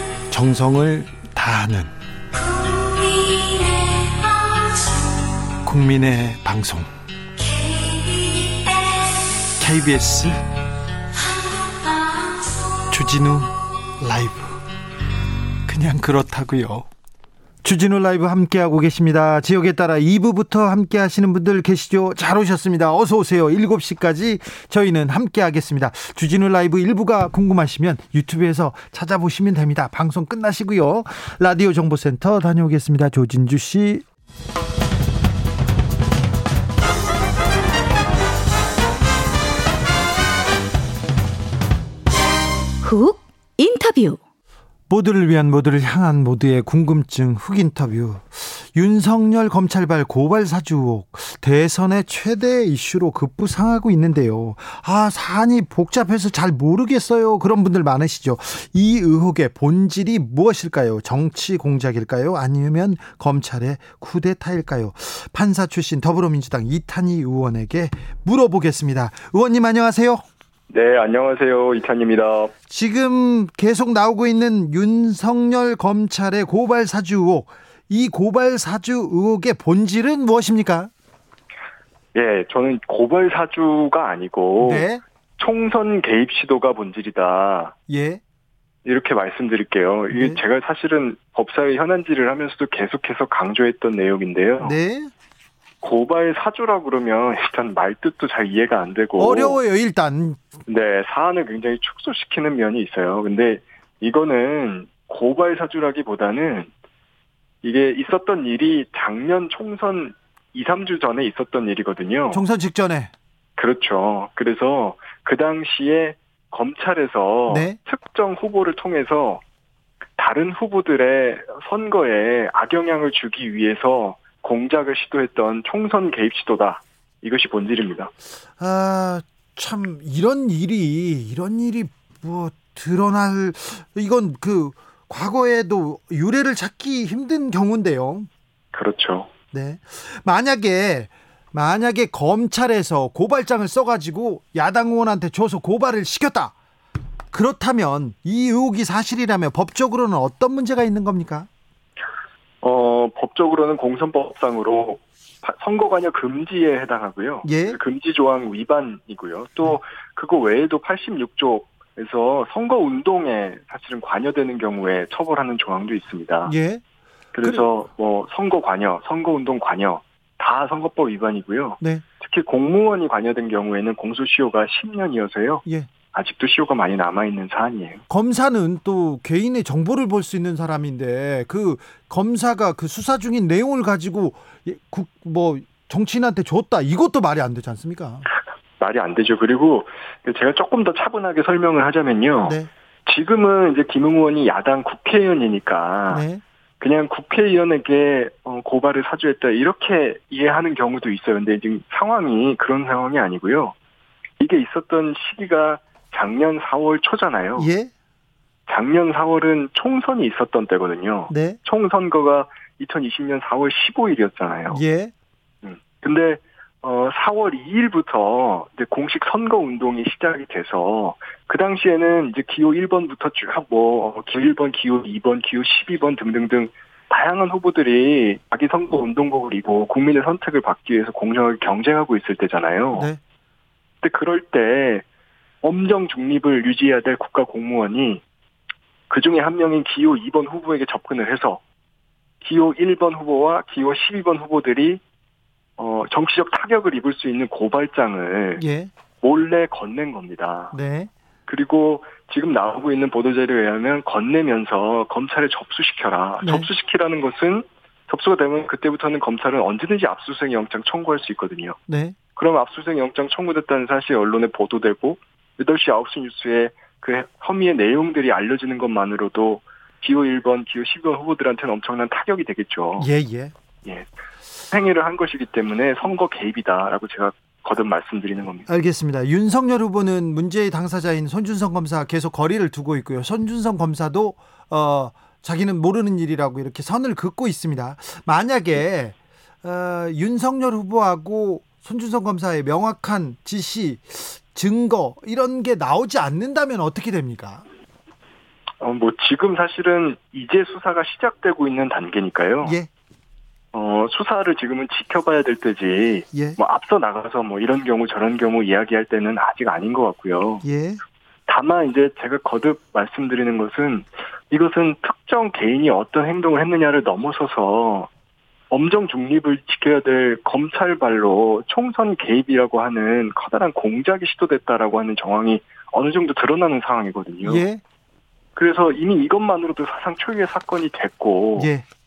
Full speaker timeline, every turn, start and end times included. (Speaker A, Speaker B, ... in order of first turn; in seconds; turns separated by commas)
Speaker A: 0.3-1.9, Speaker B: 2.7-3.9, Speaker A: 5.6-6.9, Speaker A: 9.6-10.4, Speaker A: 12.9-14.6, Speaker A: 15.7-16.9, Speaker A: 17.6-34.0, Speaker B: 42.8-44.2, Speaker A: 44.9-70.2, Speaker C: 70.7-72.5, Speaker A: 72.7-80.9, Speaker C: 82.1-84.9, Speaker A: 84.6-85.0, Speaker C: 85.4-87.7, Speaker A: 87.9-88.2, Speaker C: 88.8-94.8, Speaker A: 90.1-90.4, Speaker A: 94.6-95.1, Speaker C: 95.8-99.6, Speaker A: 99.2-100.4, Speaker C: 100.7-106.7, Speaker C: 107.6-112.4, Speaker A: 112.3-113.1, Speaker C: 113.6-119.4, Speaker A: 117.5-117.8, Speaker C: 120.2-128.1, Speaker A: 128.6-138.3, Speaker C: 138.7-139.3, Speaker A: 139.5-146.5, Speaker A: 147.3-151.5, Speaker C: 152.6-166.6, Speaker A: 157.4-157.8, Speaker A: 166.4-166.8, Speaker C: 167.3-178.0, Speaker A: 178.1-188.3, Speaker C: 188.8-196.2, Speaker A: 192.4-192.7, Speaker A: 196.1-196.4, Speaker C: 196.8-203.8, Speaker C: 204.4-207.7, Speaker A: 207.6-207.9, Speaker C: 208.7-214.8, Speaker A: 211.3-211.6, Speaker A: 214.7-215.1, Speaker C: 215.6-233.1, Speaker A: 232.9-233.2, Speaker C: 234.0-235.1, Speaker C: 235.6-238.2, Speaker C: 239.1-241.6, Speaker C: 242.4-245.0, Speaker C: 245.8-248.6, Speaker A: 248.6-248.9, Speaker C: 249.2-250.8, Speaker A: 250.7-251.1, Speaker C: 251.5-261.8, Speaker A: 256.4-256.7, Speaker A: 261.9-262.2, Speaker C: 262.4-273.1, Speaker A: 273.0-273.5, Speaker C: 274.7-278.7, Speaker A: 278.7-297.6, Speaker C: 298.8-302.8, Speaker A: 302.6-302.9, Speaker C: 303.7-310.6, Speaker A: 306.3-306.6, Speaker A: 310.6-311.0, Speaker C: 311.5-318.1, Speaker C: 318.7-327.6, Speaker A: 327.4-327.8, Speaker C: 328.6-331.7, Speaker A: 331.6-331.8